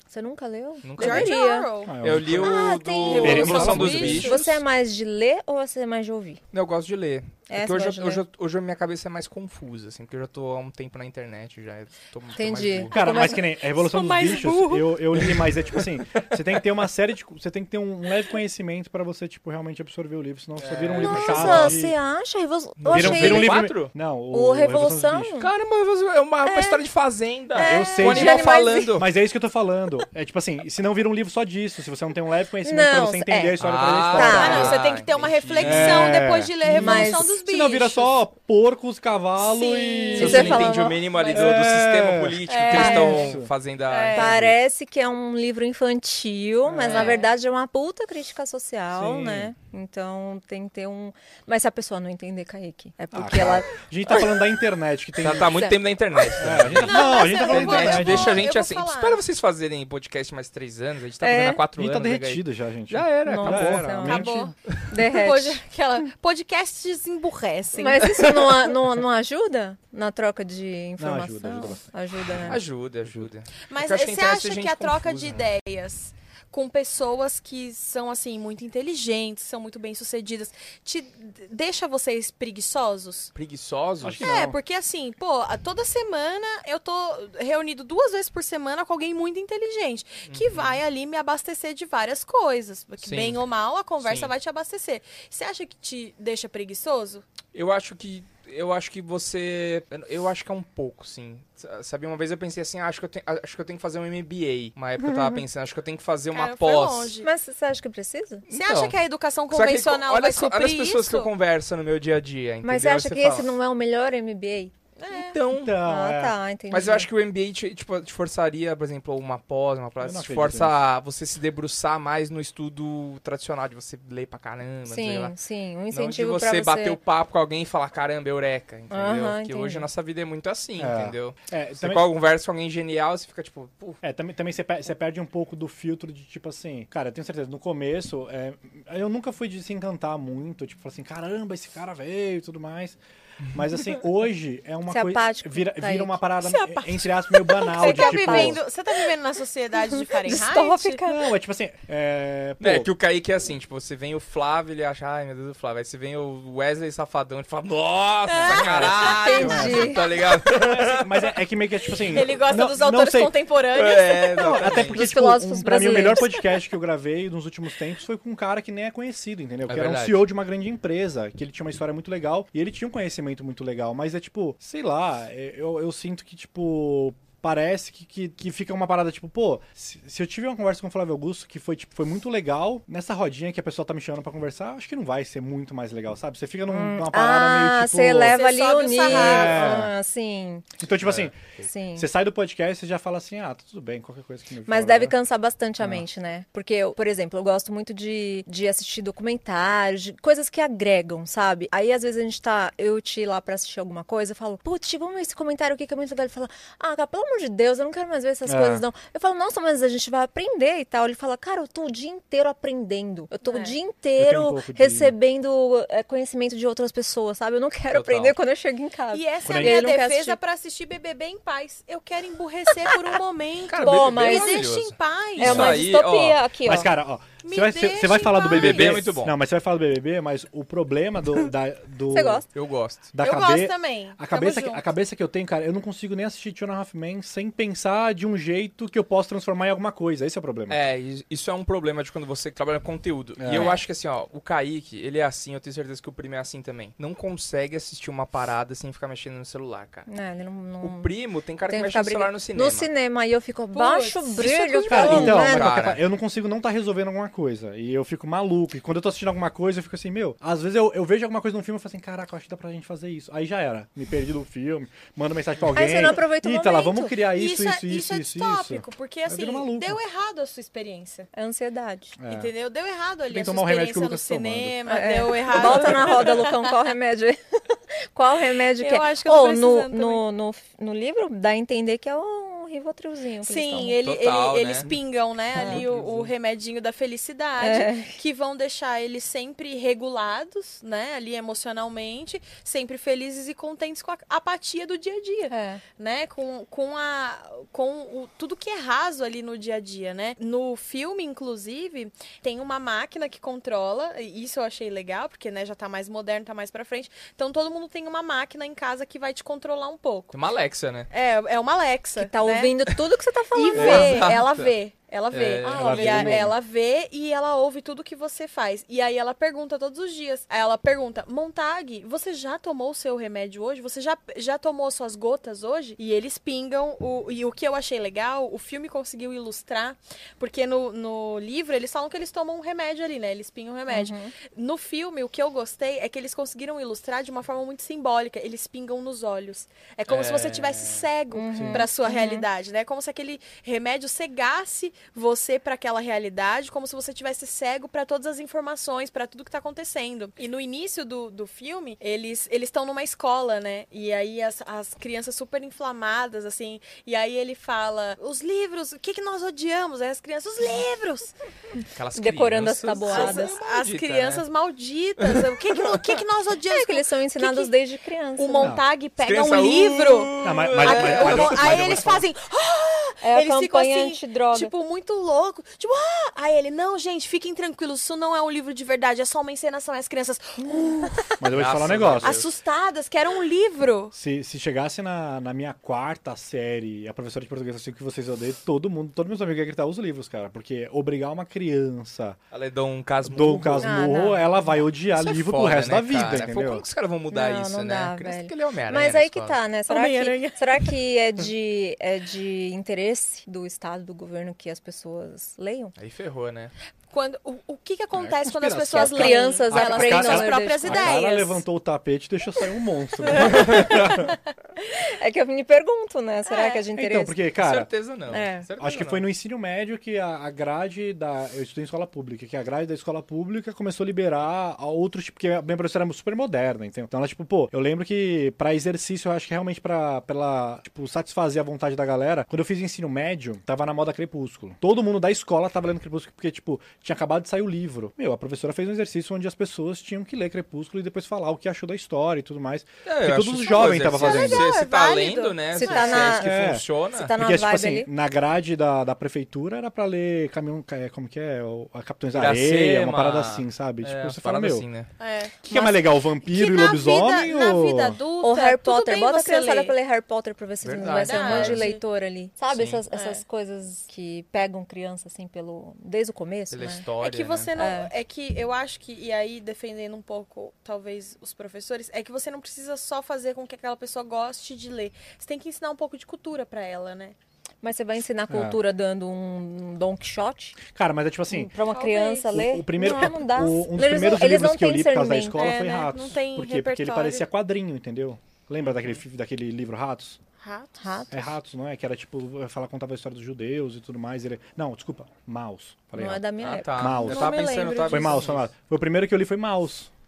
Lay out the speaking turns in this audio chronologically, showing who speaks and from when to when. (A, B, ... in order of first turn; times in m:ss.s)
0:00.1-0:01.7 A
0:00.8-0:01.4 B
0:01.0-0:01.9 C
0:01.8-0:02.6 D
0:02.0-0:04.5 B
0:02.2-0:06.4 A
0:03.0-0:04.6 C
0:03.1-0:04.4 D
0:06.5-0:12.9 B
0:07.5-0:08.2 A
0:12.4-0:13.4 A
0:12.9-0:21.9 D
0:13.7-0:14.9 C
0:20.6-0:21.8 B
0:21.0-0:23.7 A
0:22.8-0:23.9 B
0:22.9-0:25.4 D
0:24.3-0:25.5 A
0:25.4-0:29.1 B
0:26.4-0:26.8 A
0:27.6-0:28.0 C
0:27.6-0:28.9 A
0:27.6-0:34.8 D
0:32.6-0:33.6 A
0:33.6-0:36.2 B
0:34.1-0:34.8 A
0:34.3-0:38.2 C
0:35.6-0:40.7 D
0:36.6-0:37.4 A
0:39.4-0:41.8 C
0:40.2-0:41.0 A
0:40.2-0:44.5 B
0:41.3-0:43.5 D
0:42.5-0:43.3 C
0:42.7-0:43.2 A
0:43.9-0:44.4 C
0:44.1-0:54.3 A
0:46.6-0:47.1 D
0:46.8-0:47.2 B
0:46.9-0:47.3 C
0:48.9-0:49.5 D
0:53.1-0:55.7 D
0:55.2-1:04.1 B
0:56.4-0:58.4 D
0:56.8-0:59.2 C
1:01.2-1:01.6 A
1:01.8-1:04.5 D
1:03.2-1:04.3 A
1:04.0-1:04.5 C
1:04.9-1:05.6 A
1:05.1-1:08.1 C
1:07.8-1:12.6 A
1:08.2-1:08.6 B
1:11.0-1:11.8 D
1:12.3-1:15.4 B
1:12.4-1:13.3 D
1:13.7-1:23.3 C
1:23.3-1:24.4 B
1:24.0-1:24.6 D
1:24.2-1:37.2 C
1:30.3-1:30.8 B
1:33.0-1:33.4 B
1:34.0-1:34.3 B
1:37.5-1:47.1 B
1:45.0-1:45.4 A
1:46.3-1:47.3 C
1:47.2-1:48.4 A
1:48.5-1:49.0 B
1:48.5-1:51.3 C
1:49.5-1:53.6 B
1:52.6-1:54.7 A
1:55.0-1:55.4 C
1:55.1-1:55.8 B
1:55.5-1:56.4 D
1:55.7-1:57.1 A
1:56.7-2:05.3 B
2:00.0-2:00.8 D
2:04.9-2:07.0 A
2:05.9-2:14.0 B
2:08.9-2:09.9 A
2:10.8-2:12.0 D
2:14.0-2:23.0 D
2:23.5-2:28.6 D
2:24.9-2:26.2 A
2:26.4-2:31.0 C
2:27.7-2:28.6 A
2:30.1-2:31.2 A
2:31.0-2:32.9 D
2:32.6-2:41.3 B
2:38.3-2:39.5 C
2:38.5-2:43.3 D
2:39.0-2:40.0 A
2:42.1-2:44.8 C
2:43.7-2:45.0 B
2:44.3-3:08.4 D
2:44.9-2:46.6 A
2:49.7-2:50.2 B
3:06.7-3:10.8 A
3:08.3-3:09.8 C
3:09.0-3:09.9 D
3:10.8-3:15.1 D
3:11.0-3:11.6 B
3:11.6-3:12.1 A
3:14.7-3:40.4 A
3:15.8-3:16.0 D
3:28.4-3:28.8 D
3:33.4-3:33.8 C
3:34.2-3:35.1 D
3:37.9-3:38.4 B
3:39.1-3:45.8 C
3:39.4-3:39.8 D
3:43.7-3:46.4 B
3:43.8-3:44.7 A
3:45.4-3:46.9 A
3:45.4-3:45.9 D
3:46.6-3:52.4 D
3:47.4-3:49.0 C
3:48.5-3:49.4 B
3:52.1-3:52.4 A
3:52.5-3:53.0 B
3:53.1-4:00.8 D
3:53.2-3:54.8 C
4:00.7-4:10.1 B
4:03.4-4:03.7 D
4:03.5-4:03.8 A
4:10.1-4:11.1 A
4:10.8-4:12.9 B
4:11.7-4:15.8 A
4:13.7-4:15.5 C
4:14.9-4:30.0 D
4:15.0-4:16.0 B
4:25.7-4:27.2 A
4:27.3-4:31.3 C
4:31.3-4:32.2 A
4:32.2-4:32.5 D
4:32.3-4:36.7 C
4:33.3-4:34.9 D
4:34.8-4:44.0 A
4:35.5-4:36.3 D
4:38.8-4:40.2 C
4:43.4-5:10.4 C
4:44.0-4:44.9 B
4:45.6-4:46.3 D
4:47.6-4:48.1 A
4:55.5-4:55.8 A
5:10.3-5:11.1 B
5:11.1-5:12.8 C
5:12.2-5:14.2 A
5:13.5-6:01.3 C
5:13.7-5:14.7 B
5:15.3-5:16.2 B
5:15.7-5:16.5 D
5:15.9-5:16.4 A
5:33.9-5:34.3 A
5:40.1-5:41.0 B
5:41.3-5:42.4 A
5:41.5-5:41.8 D
6:01.9-6:04.4 B
6:02.2-6:03.6 A
6:03.1-6:07.7 C
6:05.2-6:05.5 B
6:06.7-6:08.8 A
6:08.4-6:21.4 C
6:09.2-6:12.2 B
6:10.4-6:12.2 D
6:13.2-6:14.7 A
6:20.7-6:21.1 A
6:21.4-6:22.4 D
6:21.5-6:22.5 B
6:22.2-6:24.1 C
6:24.1-6:32.4 D
6:32.5-6:34.1 B
6:33.2-6:36.8 D
6:33.8-6:34.8 A
6:35.1-6:39.6 B
6:37.3-6:45.9 A
6:39.9-6:40.9 C
6:46.0-6:46.7 B
6:47.1-6:51.6 C
6:48.2-6:54.3 D
6:48.9-6:51.1 A
6:53.3-6:54.3 C
6:53.4-6:54.1 A
6:55.0-6:57.4 A
6:56.5-6:56.8 C
6:56.9-6:57.9 D
6:57.6-6:59.3 B
6:58.3-6:58.6 A
6:58.8-7:24.7 D
7:23.0-7:27.3 B
7:24.0-7:26.4 C
7:25.7-7:26.6 A
7:26.3-7:34.8 D
7:27.1-7:28.1 A
7:32.3-7:35.1 B
7:35.2-7:39.9 C
7:35.6-7:38.2 D
7:38.4-7:47.0 A
7:40.8-7:41.9 B
7:41.0-7:42.0 C
7:42.7-7:43.0 B
7:43.1-7:43.4 C
7:46.7-7:47.7 B
7:47.2-7:57.3 C
7:47.7-7:48.1 A
7:57.8-8:00.8 A
7:58.5-7:58.8 D
8:00.9-8:01.7 D
8:01.5-8:05.8 A
8:01.9-8:02.5 C
8:02.5-8:10.4 D
8:05.5-8:07.4 C
8:10.6-8:11.2 C
8:11.0-8:11.4 A
8:11.3-8:20.1 D
8:16.1-8:18.4 A
8:16.6-8:18.7 B